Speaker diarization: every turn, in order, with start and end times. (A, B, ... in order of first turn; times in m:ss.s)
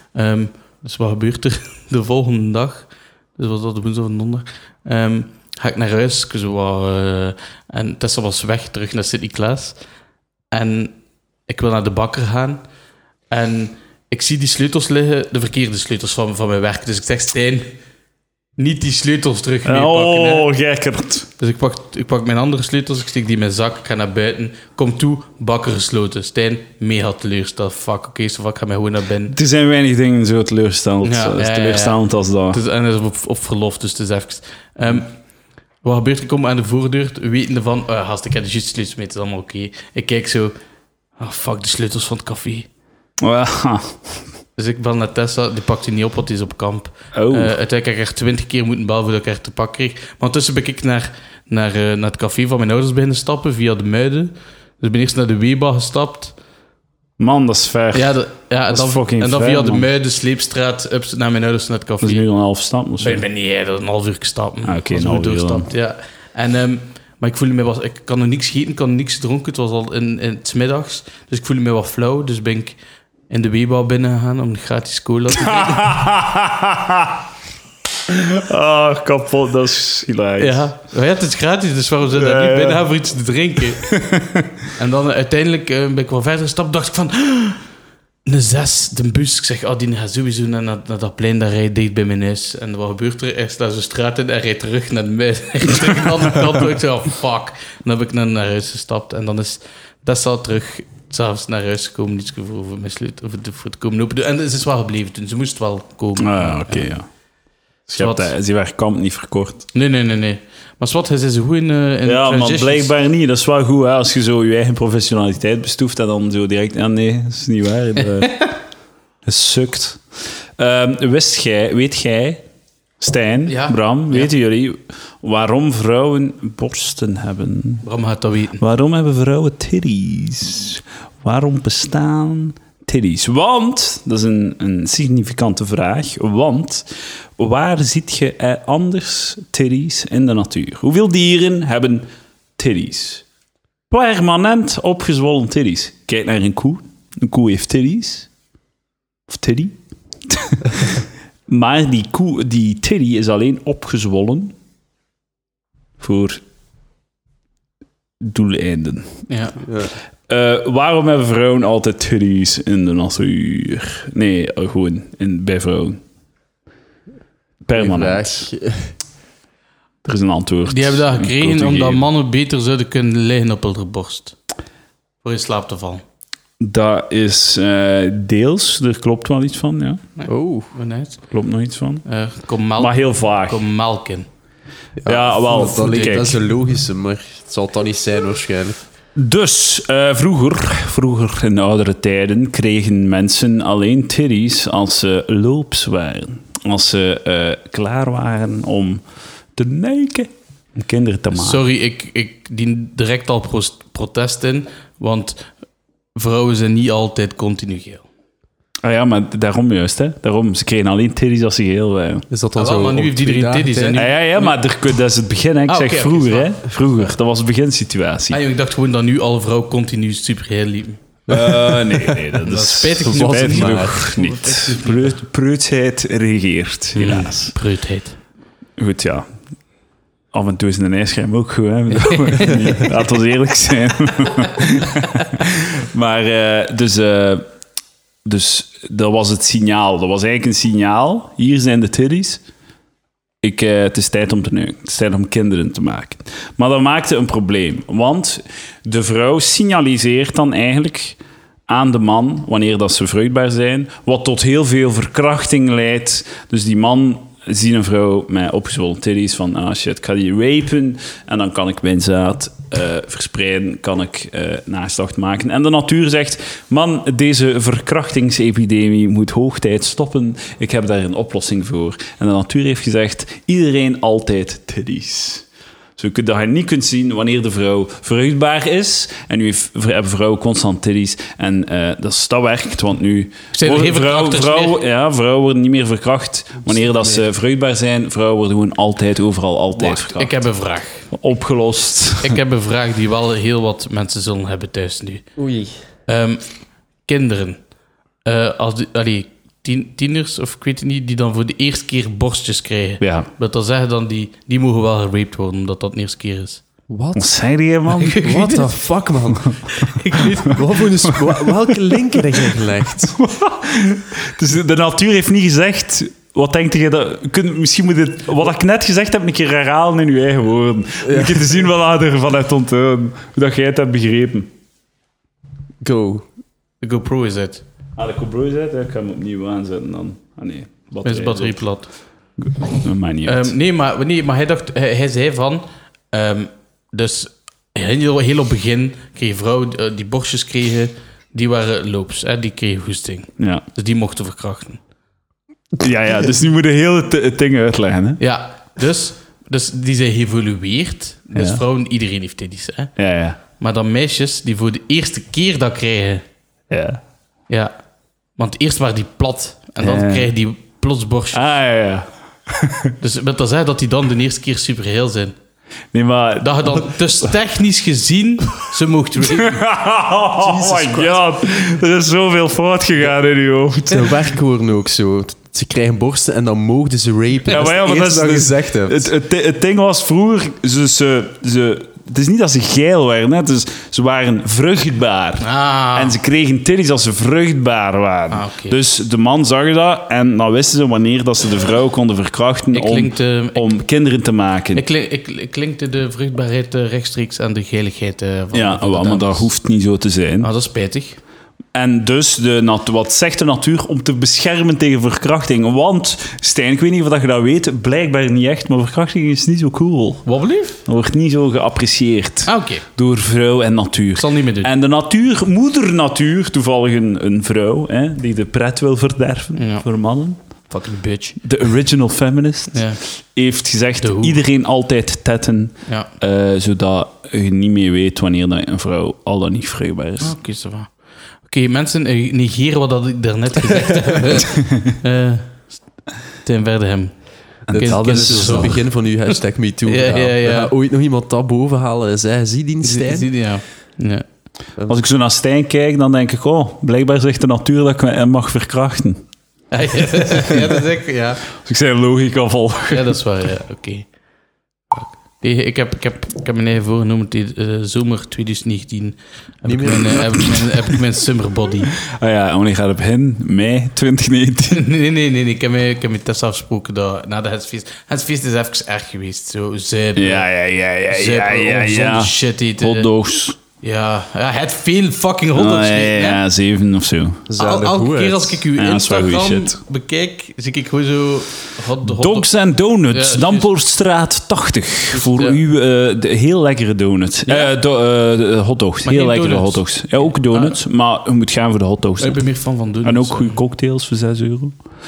0:00.1-0:09.8 A
0:10.5-0:11.0 A
0:11.5-0:12.6 A
0:13.3-0:17.7 A
0:18.6-0:20.5 A
0:19.6-0:21.3 B
0:21.4-0:29.4 A
0:29.3-0:32.6 B
0:31.0-0:35.1 A
0:35.8-0:40.6 A
0:41.2-0:42.7 A
0:43.2-0:44.2 B
0:44.6-0:56.4 A
0:47.1-0:47.6 B
0:57.2-0:58.2 B
0:57.9-1:02.3 A
0:58.7-0:59.9 B
1:02.0-1:03.2 B
1:03.0-1:12.8 A
1:04.6-1:05.7 B
1:13.3-1:16.0 A
1:15.3-1:17.2 B
1:18.1-1:20.6 B
1:20.4-1:24.0 A
1:22.1-1:22.8 B
1:23.9-1:24.5 B
1:24.8-1:27.6 A
1:28.3-1:46.9 A
1:46.2-1:47.1 B
1:47.9-1:49.7 B
1:48.0-1:48.3 A
1:49.7-1:52.9 A
1:52.0-1:58.5 B
1:59.2-2:00.0 B
2:00.6-2:02.4 B
2:03.0-2:07.8 B
2:03.5-2:04.3 A
2:07.8-2:08.6 A
2:08.6-2:23.2 B
2:23.9-2:28.3 B
2:29.3-2:34.6 B
2:36.0-2:36.4 B
2:38.2-2:39.3 B
2:39.3-2:39.6 A
2:39.6-2:39.9 C
2:40.3-2:46.0 B
2:47.6-2:48.5 B
2:47.7-2:48.9 C
2:50.0-2:52.1 B
2:50.7-2:54.4 A
2:55.2-2:56.0 A
2:56.6-3:00.0 B
3:00.2-3:01.2 A
3:00.3-3:00.7 C
3:01.3-3:02.1 B
3:02.0-3:04.3 A
3:02.8-3:03.6 B
3:05.0-3:08.8 C
3:05.0-3:06.3 B
3:05.5-3:06.3 A
3:09.2-3:19.0 B
3:19.6-3:21.6 B
3:21.3-3:25.5 A
3:26.2-3:28.0 A
3:28.8-3:32.2 B
3:32.3-3:34.0 C
3:32.6-3:34.6 A
3:34.0-3:38.4 B
3:35.7-3:37.1 A
3:38.3-3:41.0 A
3:41.3-3:42.2 C
3:41.3-3:47.5 B
3:42.4-3:45.2 A
3:43.0-3:44.5 C
3:47.0-3:48.2 A
3:48.8-3:49.3 B
3:50.3-3:57.4 B
3:52.1-3:52.6 A
3:58.2-4:02.4 B
4:03.4-4:50.4 B
4:43.6-4:44.8 A
4:46.7-4:47.2 C
4:49.8-4:51.1 A
4:51.1-4:52.4 B
4:52.2-4:55.3 A
4:55.4-4:55.8 C
4:56.1-4:56.4 A
4:57.1-4:57.6 A
4:58.2-5:06.6 A
5:03.0-5:03.3 B
5:06.9-5:07.3 C
5:07.2-5:08.3 B
5:07.9-5:08.7 A
5:08.2-5:09.7 C
5:09.4-5:09.6 B
5:09.7-5:10.9 A
5:10.5-5:13.2 C
5:13.1-5:24.5 B
5:21.0-5:21.6 C
5:25.8-5:26.2 C
5:26.8-5:27.6 A
5:28.0-5:31.6 B
5:31.0-5:31.9 A
5:32.4-5:33.5 B
5:33.2-5:44.8 A
5:43.4-5:43.6 B
5:45.8-5:48.2 B
5:48.2-5:52.9 A
5:51.4-5:51.6 B
5:53.0-5:53.4 B
5:53.5-5:56.2 A
5:56.7-5:57.0 B
5:58.4-6:01.4 A
5:59.8-6:00.3 B
6:01.3-6:02.9 B
6:03.0-6:05.4 A
6:05.9-6:06.9 B
6:06.4-6:09.6 A
6:09.2-6:14.2 B
6:10.4-6:11.2 C
6:13.9-6:19.1 C
6:17.5-6:34.8 B
6:25.4-6:26.2 A
6:28.3-6:28.8 A
6:32.7-6:33.8 A
6:34.8-6:39.5 A
6:38.5-6:40.5 B
6:40.4-6:41.2 A
6:41.7-6:50.2 B
6:50.3-6:50.8 A
6:50.8-7:00.4 B
6:52.5-6:52.8 A
6:54.2-6:54.7 A
6:59.6-6:59.9 A
7:00.7-7:01.3 A
7:01.4-7:10.4 B
7:02.7-7:03.0 A
7:04.0-7:04.4 A
7:10.2-7:15.8 A
7:14.5-7:15.0 B
7:16.4-7:19.4 A
7:17.7-7:18.7 B
7:17.8-7:23.3 C
7:19.9-7:20.7 A
7:22.8-7:24.2 A
7:24.9-7:29.2 B
7:29.7-7:31.4 A
7:31.5-7:33.1 B
7:32.9-7:34.0 A
7:34.9-7:42.0 A
7:39.6-7:40.4 C
7:42.1-7:44.9 B
7:44.7-7:50.5 A
7:50.2-7:53.6 B
7:51.1-7:53.1 A
7:53.8-7:56.4 A
7:55.6-7:57.5 B
7:57.5-7:58.6 C
7:57.6-8:02.5 A
7:58.8-7:59.8 B
8:02.0-8:12.4 B
8:03.1-8:03.7 A
8:05.1-8:05.6 A
8:09.1-8:10.8 A
8:12.2-8:13.6 A
8:13.0-8:14.8 B